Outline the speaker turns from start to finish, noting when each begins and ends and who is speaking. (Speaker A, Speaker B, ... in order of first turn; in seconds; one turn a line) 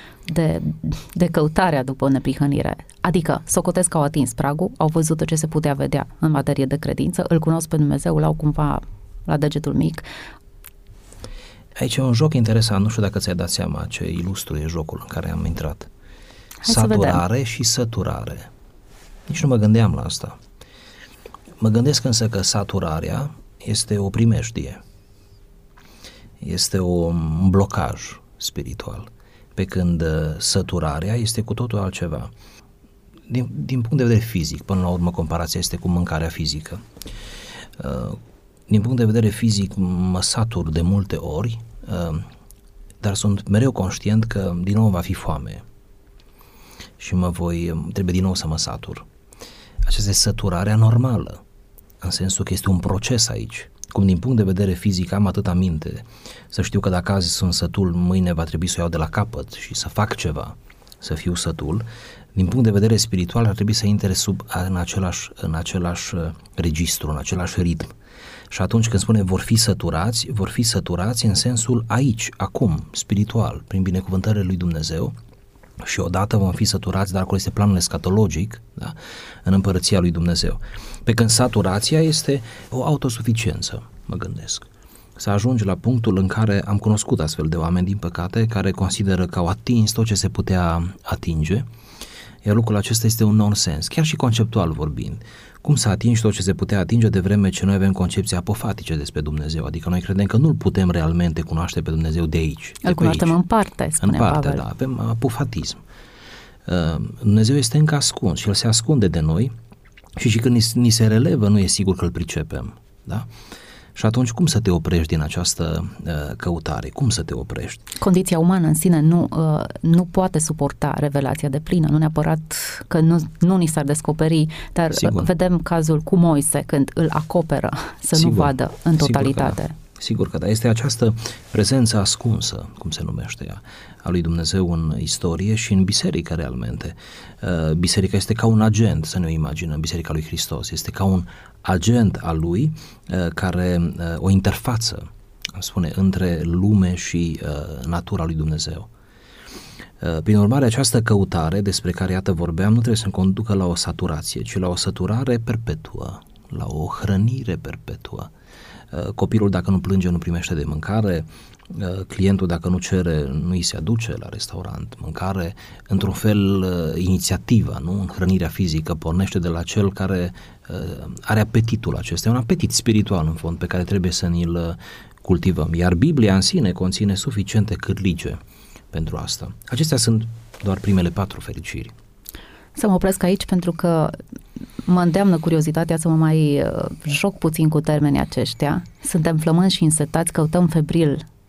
Speaker A: 0.3-10.1
Speaker B: 11.8-15.9
Speaker A: 16.6-17.2
Speaker B: 16.7-18.5
Speaker B: 19.3-20.4
Speaker B: 21.6-24.8
Speaker B: 26.4-32.3
Speaker B: 33.3-36.9
Speaker B: 37.8-42.3
Speaker B: 43.0-45.6
Speaker B: 47.0-49.0
Speaker B: 49.8-51.4
Speaker B: 52.0-61.8
Speaker B: 62.4-67.9
Speaker B: 68.5-75.1
Speaker B: 75.8-84.7
Speaker B: 85.2-91.7
Speaker B: 92.4-103.4
Speaker A: 102.8-104.6
Speaker B: 104.0-105.8
Speaker B: 106.7-109.5
Speaker B: 110.2-113.3
Speaker B: 114.0-117.9
Speaker A: 118.0-129.8
Speaker B: 124.9-125.3
Speaker B: 128.1-148.9
Speaker B: 150.0-158.3
Speaker B: 158.9-178.4
Speaker B: 178.9-181.9
Speaker A: 182.8-184.2
Speaker A: 184.8-191.2